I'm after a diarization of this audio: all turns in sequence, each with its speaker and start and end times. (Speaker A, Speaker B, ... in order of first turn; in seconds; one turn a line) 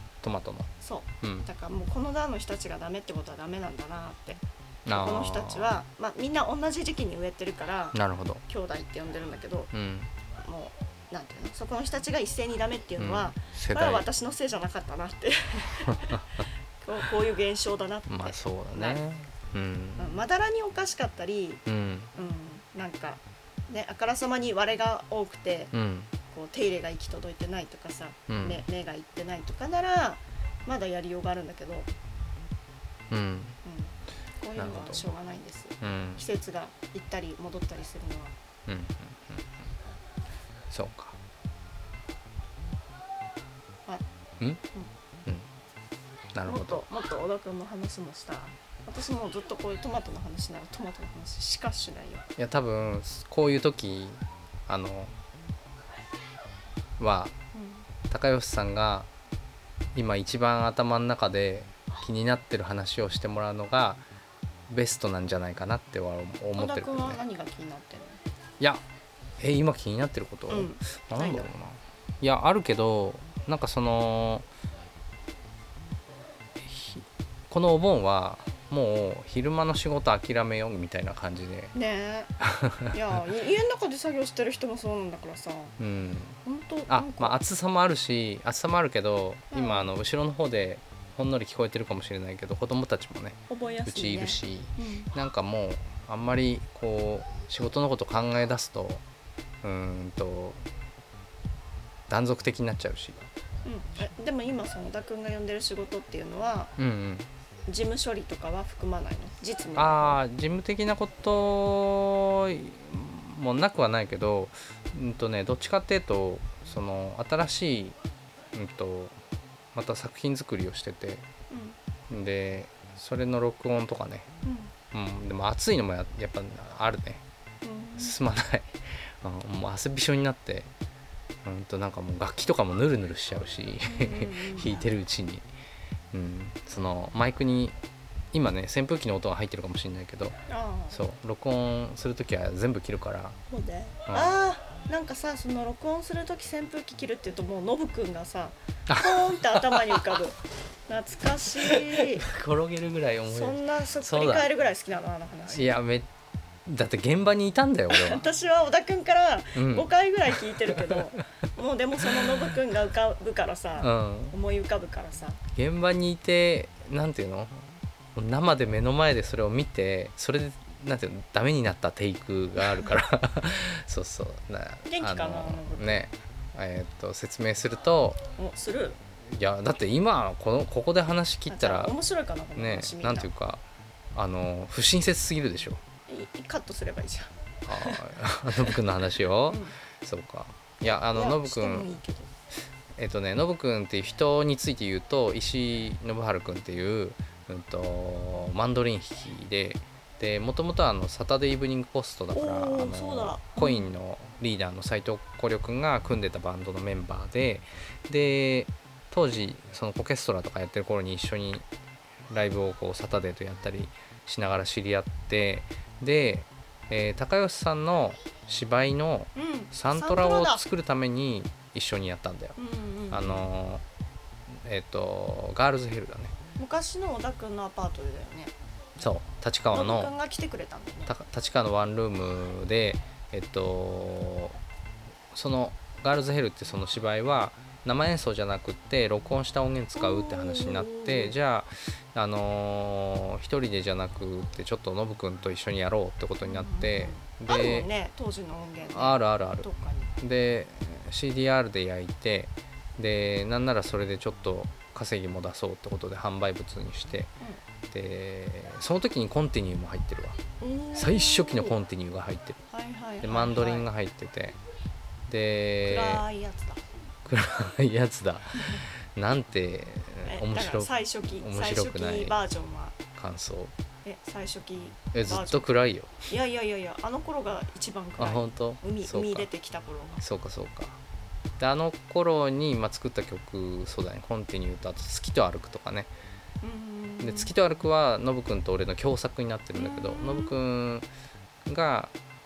Speaker A: 0.2-0.7
Speaker B: 0.8-9.7
Speaker A: 4.9-5.8
Speaker A: 7.9-8.4
Speaker A: 9.7-10.1
Speaker B: 10.4-16.2
Speaker A: 13.0-14.1
Speaker A: 15.9-16.4
Speaker B: 16.8-19.0
Speaker A: 18.1-20.2
Speaker B: 20.0-21.6
Speaker A: 21.7-22.1
Speaker B: 22.1-25.7
Speaker A: 25.7-26.1
Speaker B: 26.3-31.9
Speaker A: 28.3-28.6
Speaker A: 33.1-33.6
Speaker B: 33.6-38.3
Speaker A: 34.6-35.0
Speaker A: 35.8-36.2
Speaker A: 38.7-39.6
Speaker A: 40.7-41.2
Speaker A: 46.3-46.8
Speaker B: 46.5-52.3
Speaker A: 52.4-55.1
Speaker A: 57.0-57.3
Speaker B: 57.5-57.9
Speaker A: 58.1-59.1
Speaker A: 59.9-64.0
Speaker A: 64.7-67.2
Speaker B: 66.6-68.2
Speaker A: 69.4-74.5
Speaker B: 70.5-71.5
Speaker A: 76.6-81.7
Speaker B: 81.7-82.3
Speaker A: 82.5-82.9
Speaker B: 82.9-85.8
Speaker A: 85.8-99.0
Speaker B: 86.5-87.4
Speaker B: 89.5-89.9
Speaker B: 93.5-95.1
Speaker A: 99.6-100.6
Speaker A: 102.1-103.2
Speaker B: 103.7-106.7
Speaker A: 106.8-107.3
Speaker B: 107.7-110.2
Speaker A: 109.8-118.0
Speaker A: 118.5-119.2
Speaker A: 119.7-121.3
Speaker B: 121.5-121.8
Speaker A: 122.1-124.3
Speaker B: 124.4-124.7
Speaker A: 124.9-127.2
Speaker B: 127.6-128.2
Speaker A: 128.0-130.7
Speaker A: 131.4-135.5
Speaker B: 133.8-134.9
Speaker A: 136.1-137.8
Speaker A: 138.3-140.4
Speaker B: 140.5-141.0
Speaker A: 140.9-143.4
Speaker B: 143.5-152.3
Speaker A: 144.1-144.3
Speaker A: 148.9-150.2
Speaker A: 151.7-154.5
Speaker B: 153.3-155.8
Speaker A: 155.5-156.1
Speaker A: 156.7-158.3
Speaker B: 157.9-165.4
Speaker A: 159.6-159.9
Speaker A: 163.8-164.3
Speaker A: 165.6-178.2
Speaker B: 174.8-176.0
Speaker B: 178.4-179.0
Speaker A: 179.2-181.9
Speaker B: 181.5-183.3
Speaker A: 182.6-183.6
Speaker A: 184.2-185.8
Speaker B: 186.1-188.8
Speaker A: 187.7-192.0
Speaker B: 189.5-189.8
Speaker B: 190.8-192.3
Speaker A: 193.0-211.7
Speaker B: 202.3-203.9
Speaker A: 212.3-222.6
Speaker B: 219.3-220.6
Speaker B: 222.6-223.5
Speaker A: 223.1-223.8
Speaker A: 224.5-226.3
Speaker B: 226.6-228.5
Speaker A: 229.0-230.1
Speaker B: 229.7-231.2
Speaker A: 231.1-234.6
Speaker A: 235.3-247.9
Speaker B: 240.0-241.3
Speaker B: 246.4-250.2
Speaker A: 248.9-249.7
Speaker A: 250.2-257.3
Speaker A: 257.9-260.4
Speaker B: 260.6-261.8
Speaker A: 260.9-262.6
Speaker B: 262.7-263.9
Speaker A: 263.2-264.6
Speaker A: 265.3-266.2
Speaker B: 265.8-266.8
Speaker A: 267.2-272.4
Speaker B: 270.2-273.0
Speaker A: 273.2-273.7
Speaker B: 274.1-275.7
Speaker A: 275.1-276.2
Speaker B: 276.3-280.2
Speaker A: 278.2-279.5
Speaker A: 280.2-281.0
Speaker A: 281.6-286.1
Speaker B: 286.6-287.5
Speaker A: 287.2-291.1
Speaker B: 289.7-290.6
Speaker A: 291.7-292.1